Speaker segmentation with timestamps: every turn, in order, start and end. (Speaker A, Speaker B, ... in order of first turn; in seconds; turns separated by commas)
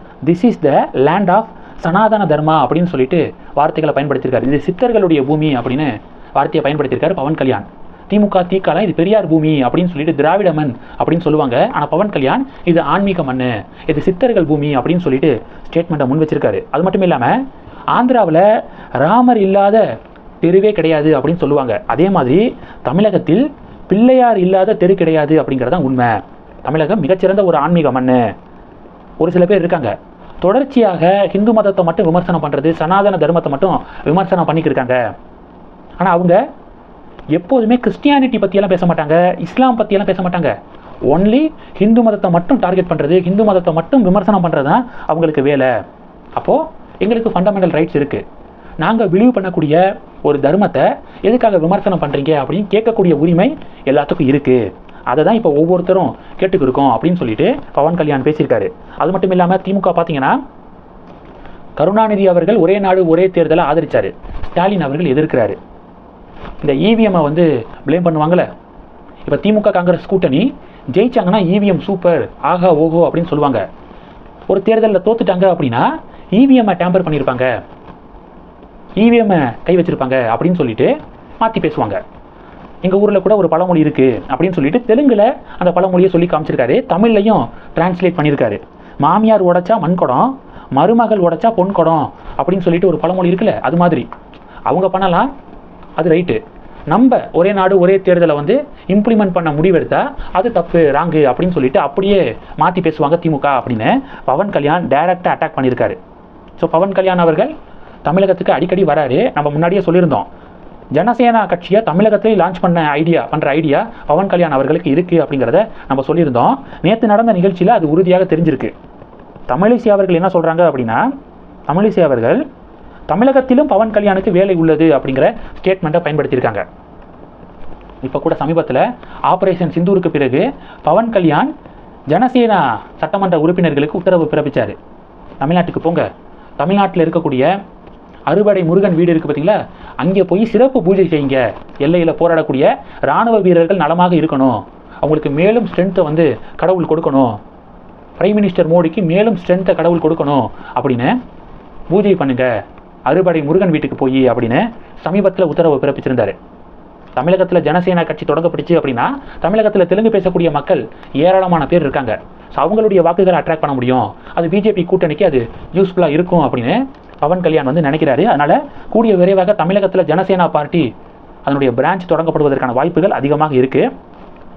Speaker A: 0.2-17.4, Speaker A: 17.9-18.4, Speaker A: 19.0-19.8, Speaker A: 20.4-28.2, Speaker A: 29.2-35.0, Speaker A: 36.0-36.4, Speaker A: 37.3-40.5, Speaker A: 41.1-45.7, Speaker A: 46.4-48.2, Speaker A: 48.8-60.4, Speaker A: 61.8-65.6, Speaker A: 66.6-68.5, Speaker A: 69.2-73.6, Speaker A: 74.5-77.5, Speaker A: 79.0-82.0, Speaker A: 82.8-94.1, Speaker A: 94.7-95.3, Speaker A: 96.0-106.0, Speaker A: 106.6-107.5, Speaker A: 108.0-110.3, Speaker A: 110.9-118.7, Speaker A: 119.5-121.0, Speaker A: 121.7-122.4, Speaker A: 123.1-126.6, Speaker A: 128.0-131.5, Speaker A: 132.1-134.8, Speaker A: 135.4-136.1, Speaker A: 136.6-137.5, Speaker A: 138.3-147.4, Speaker A: 148.2-151.1, Speaker A: 151.9-152.5, Speaker A: 153.1-156.3, Speaker A: 157.2-170.9, Speaker A: 171.4-173.8